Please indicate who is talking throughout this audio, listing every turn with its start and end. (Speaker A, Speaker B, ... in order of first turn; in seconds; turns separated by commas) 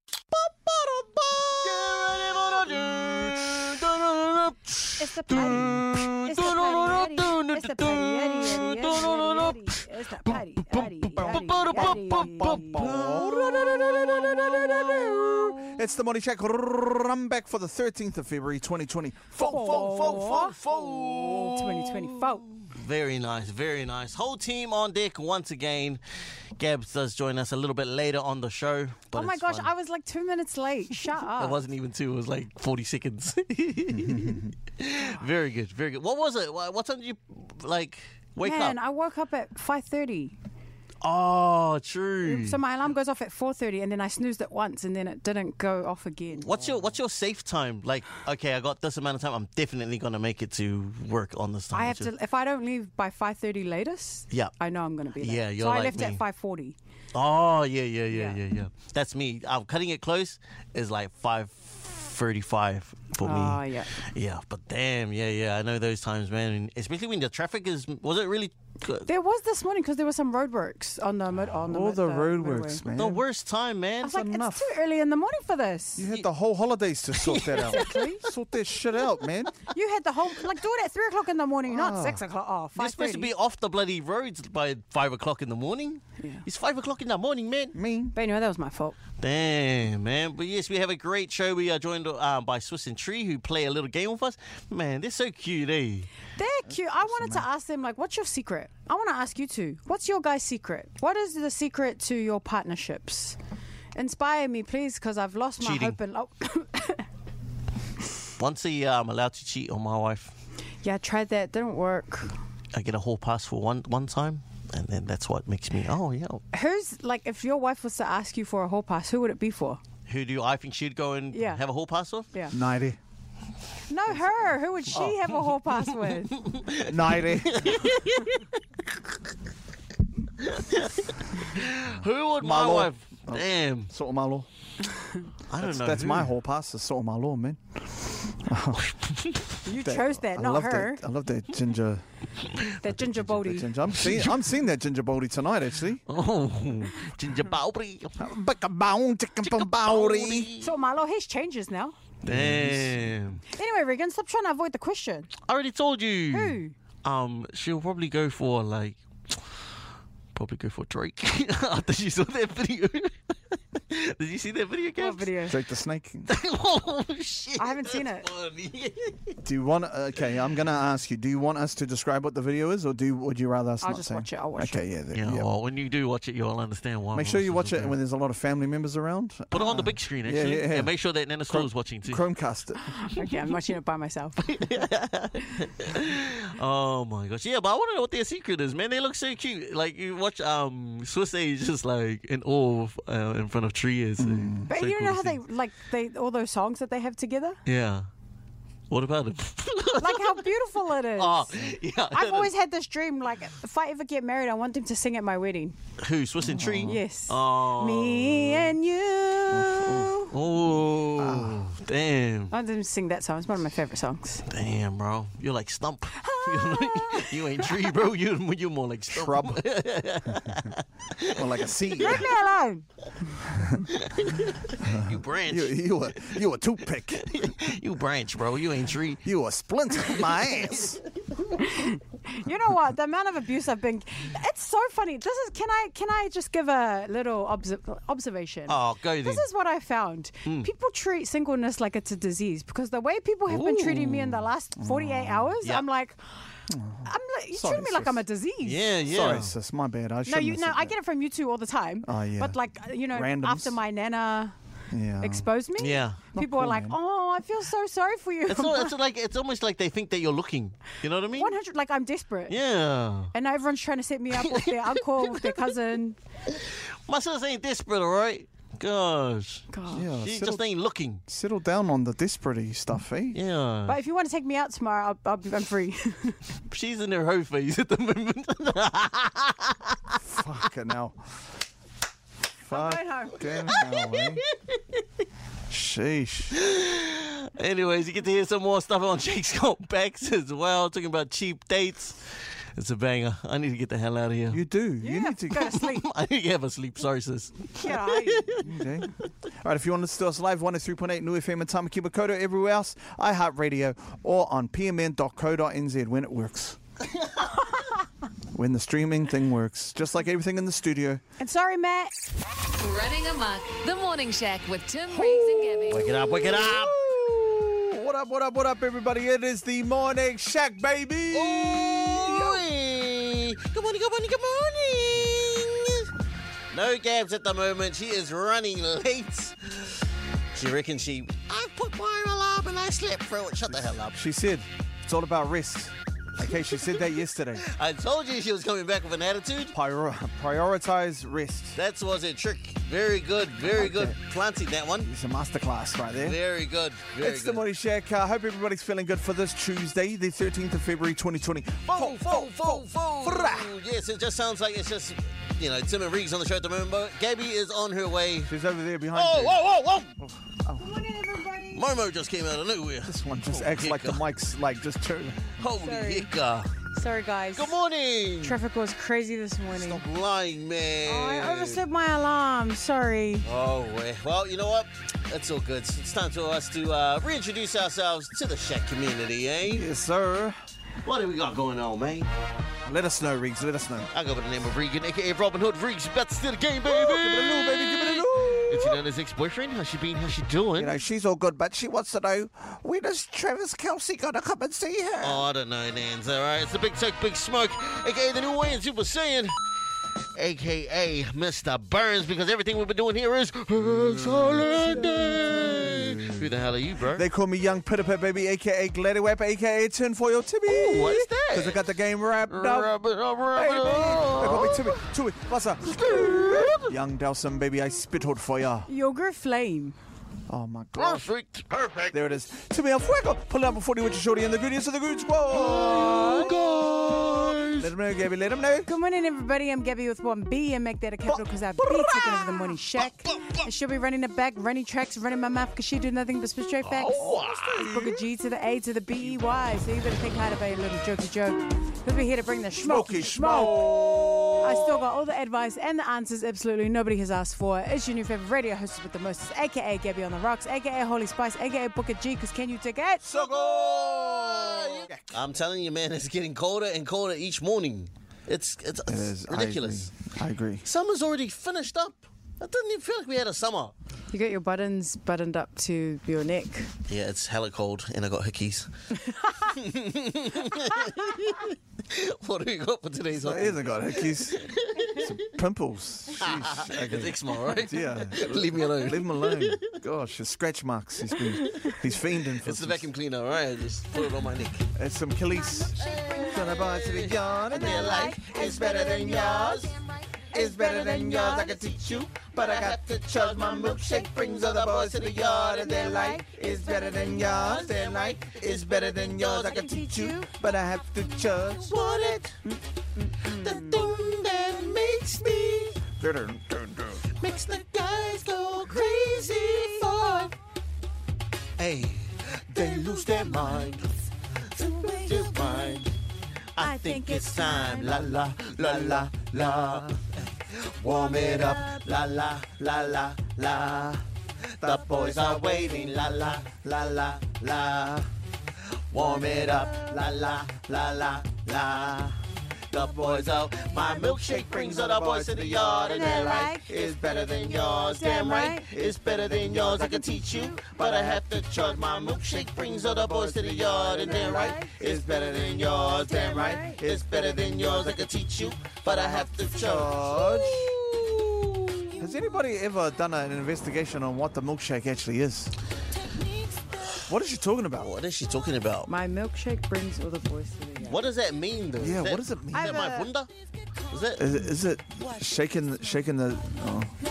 Speaker A: 0.4-15.6, Speaker B: 5.0-12.9, Speaker C: 5.3-5.8, Speaker C: 11.1-19.8, Speaker B: 14.9-15.4, Speaker B: 19.4-22.5, Speaker A: 19.4-26.0, Speaker A: 26.6-29.7, Speaker B: 29.1-31.6, Speaker A: 31.3-38.8, Speaker C: 33.9-34.5, Speaker B: 38.4-40.4, Speaker A: 41.0-42.6, Speaker B: 42.2-46.5, Speaker A: 46.3-52.1, Speaker B: 51.7-56.8, Speaker A: 55.2-56.2, Speaker A: 57.1-69.1, Speaker B: 58.1-58.4, Speaker B: 63.2-63.9, Speaker B: 69.0-72.8, Speaker C: 71.6-73.2, Speaker A: 72.9-74.2, Speaker C: 74.0-74.8, Speaker B: 74.0-76.0, Speaker C: 76.0-79.5, Speaker B: 77.3-78.3, Speaker B: 79.6-83.3, Speaker C: 81.7-82.2, Speaker A: 82.8-87.8, Speaker C: 87.7-88.2, Speaker B: 88.1-89.0, Speaker A: 89.2-96.1, Speaker B: 96.3-103.4, Speaker C: 96.7-97.4, Speaker B: 103.9-107.0, Speaker A: 105.6-106.0, Speaker A: 108.4-110.3, Speaker B: 110.8-112.3, Speaker A: 112.7-116.4, Speaker B: 116.5-119.8, Speaker A: 120.1-122.3, Speaker B: 121.3-121.6, Speaker C: 122.5-123.0, Speaker B: 123.9-126.4, Speaker C: 124.9-125.2, Speaker A: 126.4-129.0, Speaker C: 126.8-127.8, Speaker A: 130.4-133.9, Speaker C: 131.8-134.5, Speaker A: 135.5-136.3, Speaker C: 135.6-138.9, Speaker A: 138.8-139.5, Speaker B: 139.6-141.0, Speaker C: 139.7-142.0, Speaker B: 142.8-143.7, Speaker C: 142.8-146.0, Speaker A: 144.0-144.3, Speaker A: 146.1-148.3, Speaker C: 148.2-150.5, Speaker A: 149.4-150.7, Speaker B: 150.6-152.0, Speaker A: 152.2-153.4, Speaker C: 152.2-153.1, Speaker B: 153.5-155.3, Speaker A: 155.4-159.7, Speaker B: 156.3-156.7, Speaker A: 160.3-165.3, Speaker B: 165.0-165.6, Speaker C: 165.5-166.3, Speaker A: 166.3-169.4, Speaker B: 167.6-168.3, Speaker C: 169.4-175.5, Speaker B: 173.8-174.8, Speaker A: 175.1-177.9, Speaker C: 177.1-180.9, Speaker A: 179.5-182.2, Speaker C: 181.5-182.8, Speaker B: 182.8-184.5, Speaker A: 184.4-195.4, Speaker C: 194.2-194.7, Speaker B: 194.7-197.6, Speaker A: 197.7-198.1, Speaker A: 198.9-200.5, Speaker B: 200.0-201.5, Speaker A: 201.1-202.5, Speaker B: 202.1-205.8, Speaker A: 206.0-208.8, Speaker C: 206.4-207.0, Speaker B: 206.8-210.3, Speaker C: 209.5-210.2, Speaker A: 210.3-212.5, Speaker C: 211.2-211.7, Speaker B: 212.5-214.4, Speaker A: 214.5-221.5, Speaker B: 216.2-217.8, Speaker C: 219.1-219.6, Speaker C: 220.3-220.6, Speaker C: 221.3-222.3, Speaker B: 222.0-222.8, Speaker C: 223.5-223.8, Speaker A: 223.9-226.3, Speaker C: 224.8-227.3, Speaker A: 227.2-229.2, Speaker C: 229.2-231.0, Speaker A: 230.1-231.0, Speaker B: 231.6-246.4, Speaker A: 238.7-239.4, Speaker A: 243.5-244.5, Speaker C: 244.8-245.5, Speaker C: 246.7-248.2, Speaker B: 247.0-248.8, Speaker A: 248.6-249.5, Speaker C: 249.0-250.9, Speaker B: 250.2-254.5, Speaker C: 252.0-252.6, Speaker C: 253.1-253.8, Speaker C: 254.9-255.5, Speaker B: 255.2-258.9, Speaker A: 255.8-256.2, Speaker C: 256.3-257.0, Speaker A: 258.5-261.5, Speaker B: 261.3-262.6, Speaker A: 262.5-263.3, Speaker B: 263.3-266.2, Speaker A: 264.4-264.7, Speaker A: 265.2-265.5, Speaker A: 266.5-269.7, Speaker B: 269.7-270.1, Speaker C: 269.9-270.6, Speaker A: 270.2-271.2, Speaker C: 271.3-273.4, Speaker A: 273.3-274.0, Speaker B: 273.9-276.4, Speaker A: 276.7-280.2, Speaker C: 280.2-281.2, Speaker B: 282.6-283.7, Speaker C: 282.7-284.4, Speaker A: 283.7-285.2, Speaker C: 285.7-286.6, Speaker A: 286.5-294.6, Speaker C: 294.5-295.7, Speaker B: 295.0-296.0, Speaker A: 295.5-299.2, Speaker B: 297.8-298.5, Speaker C: 298.6-306.8, Speaker C: 308.5-311.2, Speaker B: 311.4-312.1, Speaker D: 312.7-316.1, Speaker C: 315.1-322.6, Speaker A: 315.9-316.9, Speaker A: 321.3-326.1, Speaker A: 326.7-330.0, Speaker A: 330.5-334.2, Speaker C: 333.7-337.6, Speaker A: 337.6-339.7, Speaker C: 339.7-341.8, Speaker A: 341.8-345.1, Speaker C: 343.6-344.2, Speaker C: 345.0-346.4, Speaker A: 346.1-347.6, Speaker C: 347.2-353.7, Speaker A: 351.9-358.5, Speaker C: 358.4-359.6, Speaker A: 359.1-360.1, Speaker C: 360.2-361.0, Speaker B: 360.8-361.9, Speaker A: 361.7-364.2, Speaker C: 363.0-365.6, Speaker A: 365.6-366.7, Speaker B: 365.8-366.3, Speaker B: 366.9-367.7, Speaker A: 367.5-368.6, Speaker B: 368.4-370.0, Speaker A: 369.7-371.8, Speaker B: 371.0-373.4, Speaker A: 373.4-379.9, Speaker C: 379.6-380.6, Speaker A: 381.0-382.3, Speaker C: 382.9-384.1, Speaker A: 384.1-390.9, Speaker C: 386.8-389.0, Speaker C: 390.8-395.4, Speaker A: 395.2-399.5, Speaker A: 400.3-407.2, Speaker C: 403.8-406.5, Speaker C: 407.1-412.9, Speaker A: 410.7-411.8, Speaker A: 412.5-415.1, Speaker C: 413.5-418.9, Speaker A: 415.8-416.9, Speaker B: 418.9-419.9, Speaker C: 420.5-421.2, Speaker A: 421.0-422.1, Speaker C: 422.1-426.6, Speaker A: 425.5-427.9, Speaker C: 427.8-428.9, Speaker B: 428.9-443.9, Speaker C: 431.2-432.8, Speaker A: 433.3-433.6, Speaker A: 436.8-437.9, Speaker C: 437.1-438.2, Speaker C: 442.7-444.9, Speaker A: 444.1-444.6, Speaker B: 444.6-453.2, Speaker C: 453.2-455.4, Speaker A: 453.3-460.1, Speaker C: 459.1-460.9, Speaker A: 460.8-463.9, Speaker B: 464.3-466.9, Speaker A: 467.1-468.9, Speaker B: 469.2-469.8, Speaker A: 469.7-475.4, Speaker B: 470.8-471.1, Speaker C: 473.3-474.6, Speaker C: 475.1-483.1, Speaker A: 476.4-479.9, Speaker A: 481.7-481.9, Speaker A: 482.6-484.9, Speaker C: 484.9-489.9, Speaker B: 485.9-486.8, Speaker A: 486.0-490.0, Speaker B: 487.7-489.6, Speaker B: 490.5-491.8, Speaker C: 490.5-502.4, Speaker A: 491.2-499.9, Speaker B: 495.9-496.6, Speaker B: 499.7-500.5, Speaker A: 501.6-502.6, Speaker B: 502.6-504.1, Speaker A: 503.5-506.0, Speaker C: 506.1-507.3, Speaker A: 507.4-510.5, Speaker B: 509.1-510.1, Speaker A: 511.8-514.1, Speaker C: 512.7-514.0, Speaker A: 514.7-516.1, Speaker B: 515.0-516.0, Speaker A: 516.7-524.0, Speaker B: 516.8-518.3, Speaker C: 518.2-520.2, Speaker C: 521.0-524.2, Speaker A: 524.8-528.2, Speaker C: 524.8-528.2, Speaker A: 529.1-532.2, Speaker C: 529.1-532.3, Speaker C: 532.9-550.9, Speaker A: 532.9-552.2, Speaker B: 536.1-537.0, Speaker B: 537.9-538.9, Speaker B: 544.2-544.9, Speaker B: 546.3-547.0, Speaker C: 552.2-555.7, Speaker A: 556.9-557.3, Speaker C: 557.2-558.1, Speaker A: 558.0-559.1, Speaker B: 559.1-561.2, Speaker A: 561.0-563.5, Speaker C: 562.0-563.1, Speaker B: 562.7-563.3, Speaker A: 564.1-564.5, Speaker C: 564.4-567.1